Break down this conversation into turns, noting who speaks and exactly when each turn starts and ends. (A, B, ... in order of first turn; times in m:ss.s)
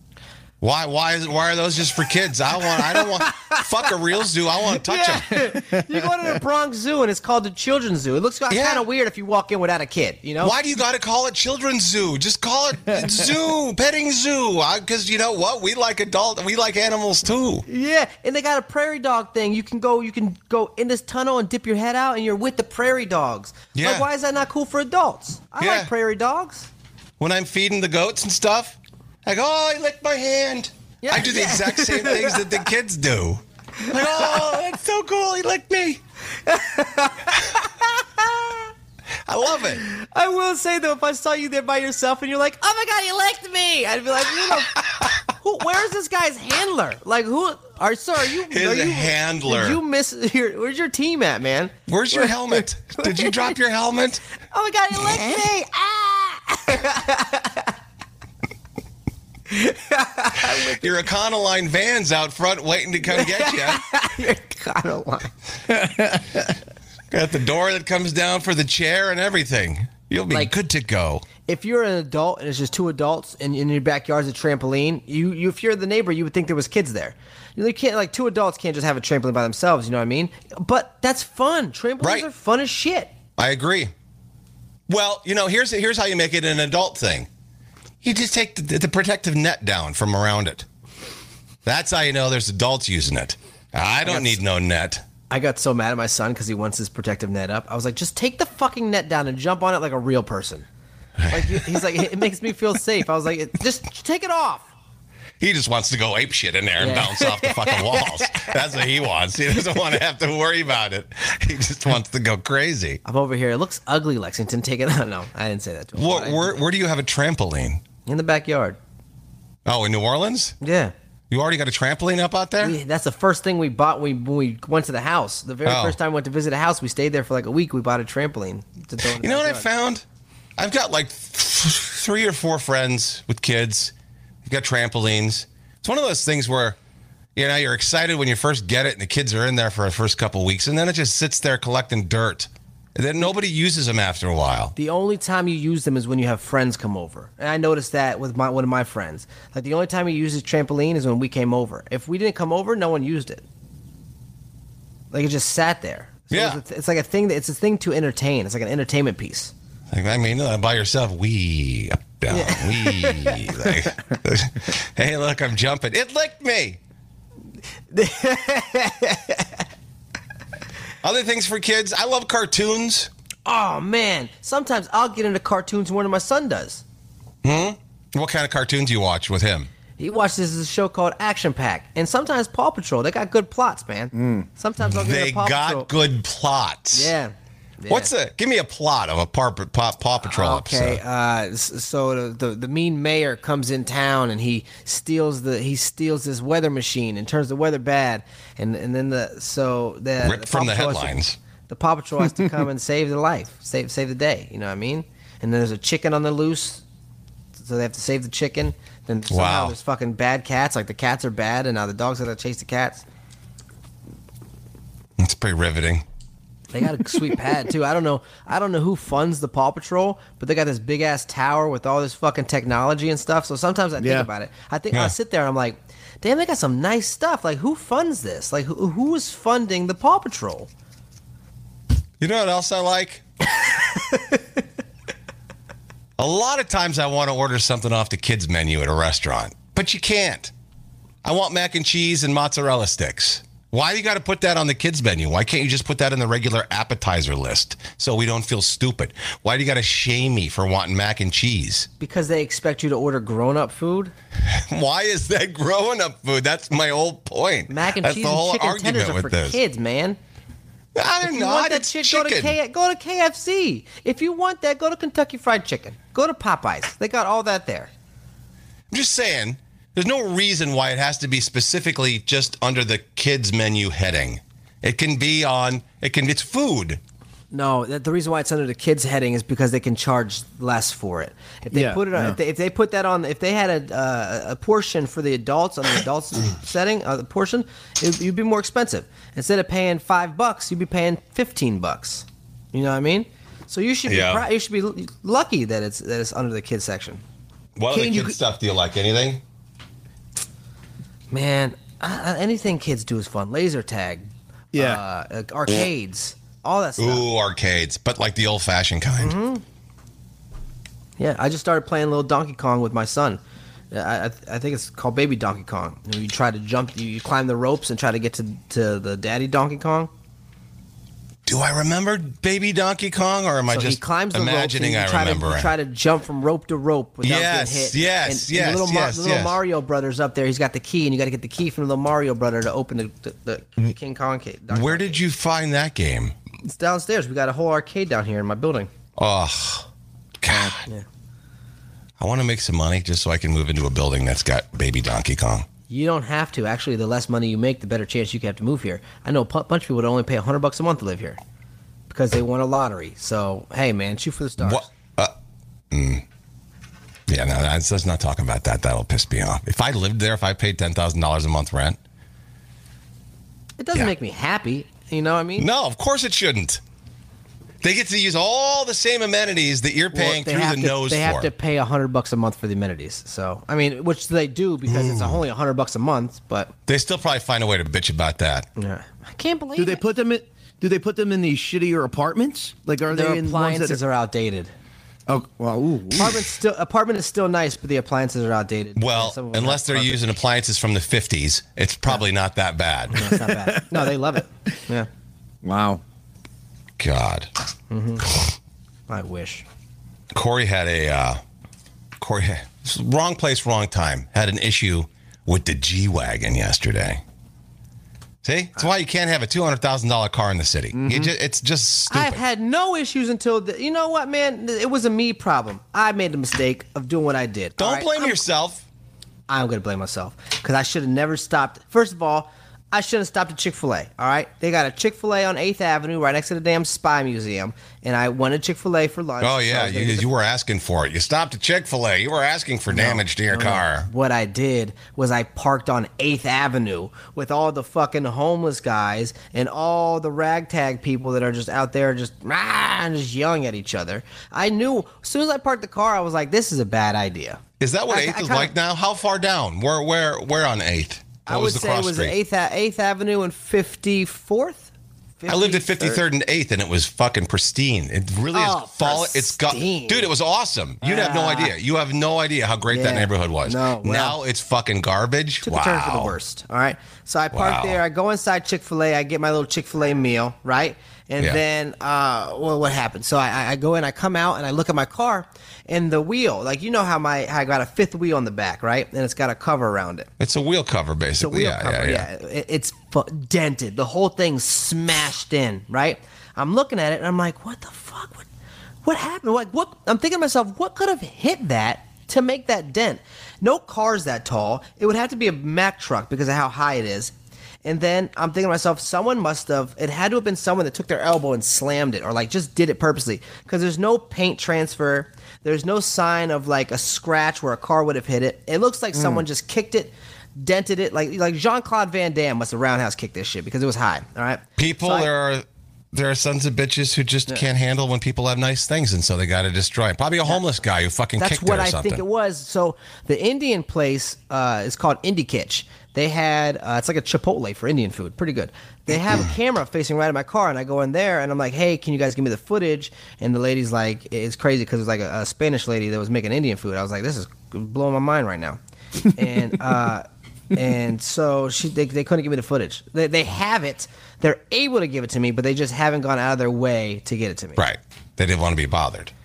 0:00.6-0:05.5 A
0:02.7-0:03.6 B
0:04.8-0:10.6 B
0:08.5-0:08.9 A
0:10.4-0:17.6 A
0:17.7-0:26.7 B
0:23.8-0:24.1 A
0:25.6-0:25.9 A
0:27.2-0:36.0 A
0:31.0-0:32.6 B
0:36.5-0:38.6 B
0:39.3-0:39.8 A
0:39.8-0:53.5 B
0:48.5-0:49.8 A
0:51.9-0:54.2 A
0:54.5-0:57.7 B
0:59.5-1:00.9 B
1:00.8-1:03.8 A
1:03.1-1:05.3 B
1:05.8-1:06.2 C
1:07.1-1:11.3 A
1:11.4-1:23.1 B
1:22.0-1:22.3 A
1:23.4-1:23.9 A
1:24.9-1:27.3 A
1:28.0-1:30.7 A
1:31.6-1:35.0 A
1:34.0-1:34.4 B
1:35.3-1:40.7 B
1:41.2-1:42.0 A
1:41.3-1:44.7 B
1:45.4-1:53.0 A
1:46.8-1:48.6 B
1:53.0-1:56.6 B
1:56.0-1:57.8 A
1:58.1-1:58.8 B
1:59.6-2:00.6 A
2:00.6-2:00.9 B
2:01.3-2:02.8 A
2:02.6-2:09.7 B
2:05.6-2:06.0 A
2:09.0-2:10.0 A
2:10.6-2:13.9 A
2:14.5-2:16.8 A
2:17.4-2:24.7 A
2:24.8-2:33.4 B
2:35.1-2:39.5 B
2:36.3-2:36.6 A
2:39.9-2:46.8 A
2:42.3-2:43.8 B
2:47.9-2:49.6 B
2:51.0-2:53.1 A
2:53.5-2:56.8 B
2:57.4-2:59.7 A
3:00.0-3:05.9 B
3:04.1-3:04.5 C
3:04.8-3:07.1 A
3:06.9-3:08.1 B
3:07.9-3:11.0 A
3:10.2-3:21.2 B
3:20.2-3:21.4 A
3:21.7-3:26.8 B
3:27.6-3:33.0 B
3:29.3-3:29.8 A
3:35.2-3:36.0 A
3:36.7-3:50.7 B
3:44.0-3:44.3 C
3:52.2-3:53.2 A
3:56.2-4:00.5 A
4:01.2-4:11.9 A
4:12.0-4:14.1 B
4:14.4-4:19.6 A
4:17.7-4:20.2 B
4:21.0-4:22.6 A
4:21.2-4:27.9 B
4:28.9-4:37.0 A
4:37.5-4:57.2 B
4:41.7-4:42.4 C
4:54.1-4:54.4 A
4:57.8-4:59.4 A
4:58.0-4:58.2 C
5:01.3-5:07.3 B
5:04.7-5:05.0 C
5:07.0-5:09.4 A
5:09.2-5:09.6 B
5:11.2-5:13.4 B
5:13.9-5:20.1 B
5:21.5-5:25.7 A
5:23.7-5:35.2 B
5:27.2-5:29.6 A
5:34.7-5:36.4 A
5:36.6-5:38.9 B
5:39.2-5:39.9 A
5:40.4-5:40.9 A
5:42.2-5:45.7 A
5:45.9-5:51.4 B
5:52.1-5:54.9 B
5:54.6-5:55.3 A
5:55.9-5:56.2 A
5:57.3-6:02.0 A
6:03.8-6:05.7 B
6:05.6-6:06.8 A
6:07.8-6:11.5 A
6:10.1-6:16.7 B
6:14.9-6:15.4 A
6:16.9-6:18.7 A
6:18.8-6:20.0 B
6:19.8-6:24.0 C
6:23.1-6:24.7 B
6:25.3-6:26.5 C
6:26.1-6:30.2 B
6:29.0-6:33.3 A
6:33.1-6:35.1 B
6:33.3-6:34.0 C
6:35.6-6:36.0 C
6:37.0-6:37.5 A
6:37.9-6:38.3 B
6:39.1-6:39.6 B
6:40.3-6:41.4 A
6:42.2-6:47.2 A
6:48.4-6:52.4 A
6:51.0-6:51.3 C
6:52.1-6:58.4 B
6:57.8-6:58.8 A
6:59.5-7:10.3 B
7:09.4-7:14.1 A
7:12.9-7:28.7 B
7:27.8-7:32.4 A
7:31.5-7:36.2 B
7:35.5-7:46.4 A
7:38.5-7:40.3 B
7:41.0-7:41.7 B
7:42.9-7:44.4 B
7:45.6-8:00.3 B
7:47.5-7:48.0 A
8:00.4-8:02.3 A
8:01.4-8:08.5 B
8:09.0-8:17.3 B
8:17.8-8:35.3 B
8:29.2-8:29.4 C
8:34.8-8:42.2 A
8:41.4-8:58.8 B
8:59.4-9:07.8 B
9:07.8-9:09.3 A